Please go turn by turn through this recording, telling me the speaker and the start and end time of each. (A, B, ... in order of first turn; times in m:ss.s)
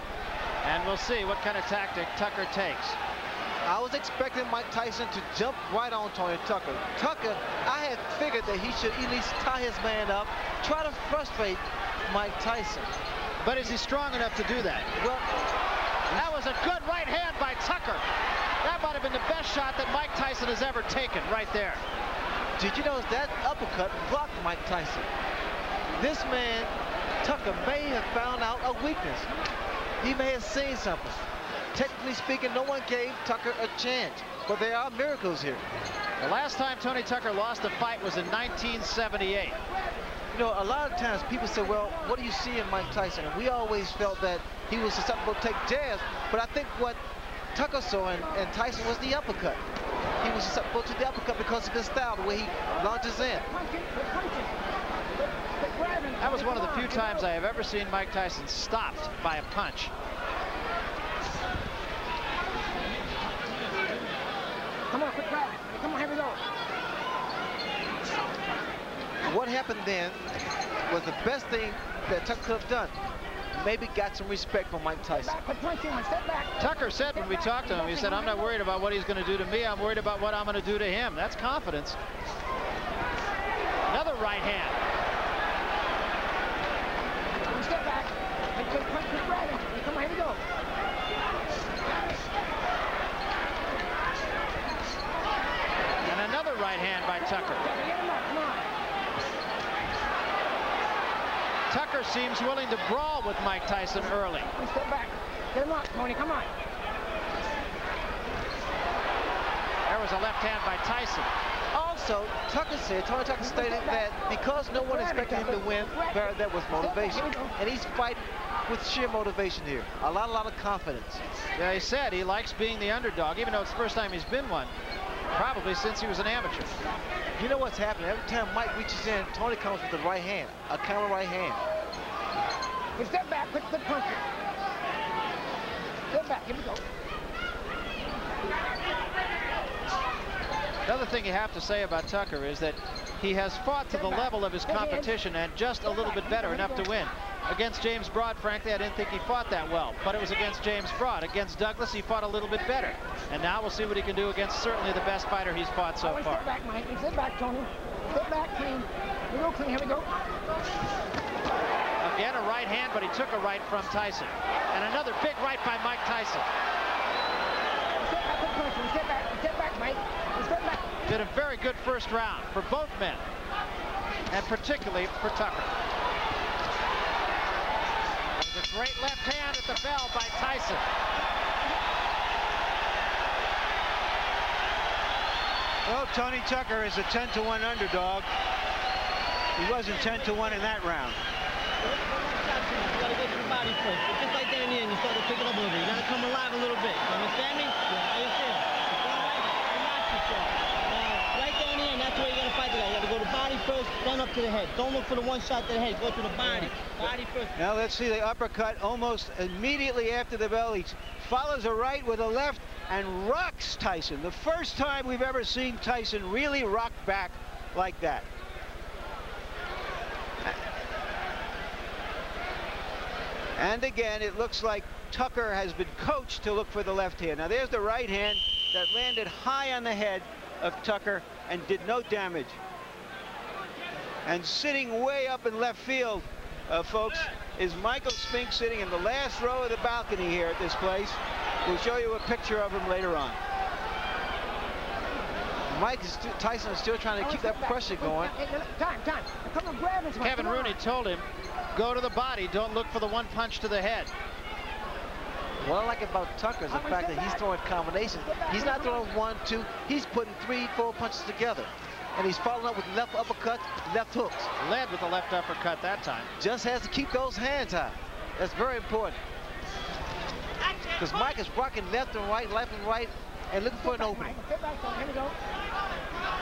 0:00.6-0:03.0 A
0:03.6-0:12.9 B
0:13.4-0:14.9 A
0:15.0-0:15.3 B
0:16.1-0:18.0 A
0:18.6-0:21.8 A
0:22.6-0:25.1 B
0:26.0-0:29.3 B
0:30.0-0:31.2 B
0:31.7-0:35.6 B
0:36.2-0:39.6 A
0:40.3-0:47.0 B
0:47.5-0:49.6 B
0:50.2-0:53.5 B
0:53.3-0:54.5 C
0:55.6-0:57.3 C
0:56.2-0:59.9 A
1:04.9-1:06.4 C
1:09.2-1:10.2 B
1:10.9-1:13.0 B
1:13.5-1:15.4 B
1:15.1-1:18.6 C
1:16.6-1:22.0 A
1:23.9-1:24.8 A
1:27.5-1:30.4 C
1:36.0-1:37.7 A
1:37.2-1:38.7 C
1:41.7-1:44.5 A
1:44.0-1:46.5 C
1:49.9-1:51.3 A
1:51.7-2:01.2 B
1:53.4-1:57.5 C
2:01.6-2:04.7 A
2:05.3-2:06.7 A
2:07.4-2:11.6 B
2:13.0-2:14.2 C
2:16.1-2:16.8 C
2:20.9-2:36.4 A
2:23.9-2:25.2 C
2:25.8-2:26.9 C
2:36.0-2:40.1 C
2:42.0-2:46.5 A
2:48.0-2:50.8 C
2:51.1-2:53.2 A
2:54.3-2:55.7 A
2:58.4-3:00.8 A
3:05.9-3:08.3 D
3:09.6-3:11.2 D
3:09.9-3:10.7 E
3:11.8-3:27.5 E
3:27.6-3:38.3 D
3:43.6-3:52.6 D
3:54.3-4:03.4 D
4:05.7-4:08.3 B
4:07.2-4:10.8 C
4:10.2-4:14.1 A
4:15.6-4:24.5 B
4:16.7-4:19.1 C
4:24.6-4:26.3 A
4:26.4-4:29.2 B
4:30.6-4:31.0 E
4:31.0-4:34.4 B
4:33.8-4:35.4 C